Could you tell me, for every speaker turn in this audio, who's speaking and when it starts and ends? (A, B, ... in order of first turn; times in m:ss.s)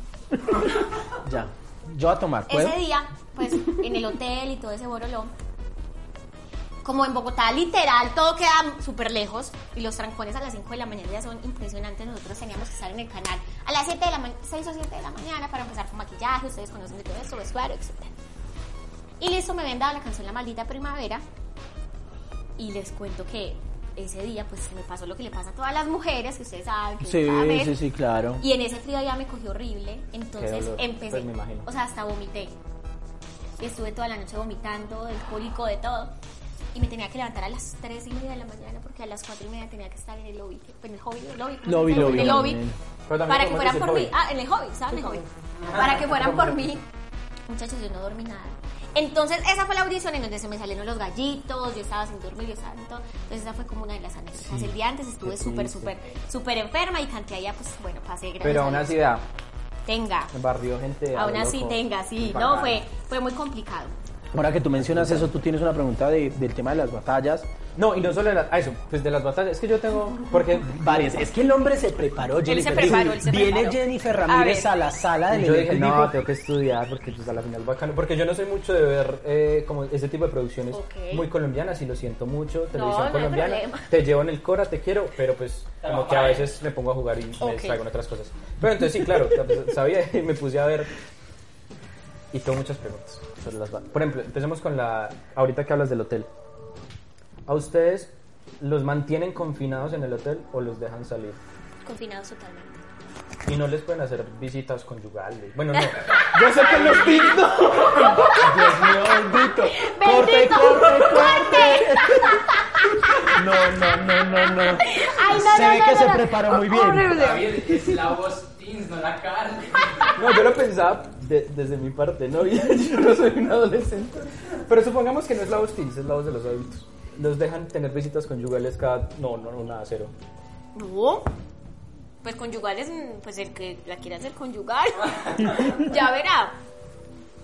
0:00.5-0:02.8 A
0:02.5-0:05.3 B
0:06.8-0:18.1 B
0:19.2-0:21.2 B
0:22.6-0:27.8 B
0:27.0-0:28.4 A
0:28.4-0:32.6 B
0:30.4-0:31.7 C
0:33.6-0:36.1 B
0:36.7-0:42.6 B
0:41.7-0:42.8 A
0:42.0-0:42.5 C
0:43.1-0:44.1 C
0:43.3-0:46.8 B
0:45.0-0:46.8 C
0:47.5-0:59.0 B
0:55.2-0:55.9 C
0:58.4-0:59.2 C
0:59.9-1:00.3 B
1:00.3-1:02.8 C
1:01.2-1:04.0 B
1:04.3-1:07.5 A
1:07.8-1:11.1 C
1:10.6-1:16.2 A
1:12.4-1:14.7 B
1:15.3-1:30.9 C
1:20.7-1:21.3 B
1:22.7-1:23.9 B
1:25.8-1:26.5 D
1:27.4-1:27.8 B
1:32.3-1:36.3 C
1:37.5-1:41.4 C
1:41.8-1:42.8 B
1:43.5-1:48.3 C
1:46.3-1:57.6 B
1:48.3-1:52.5 A
1:53.2-1:57.3 A
1:57.1-2:00.2 D
2:00.2-2:10.1 C
2:10.8-2:11.3 B
2:12.2-2:16.6 B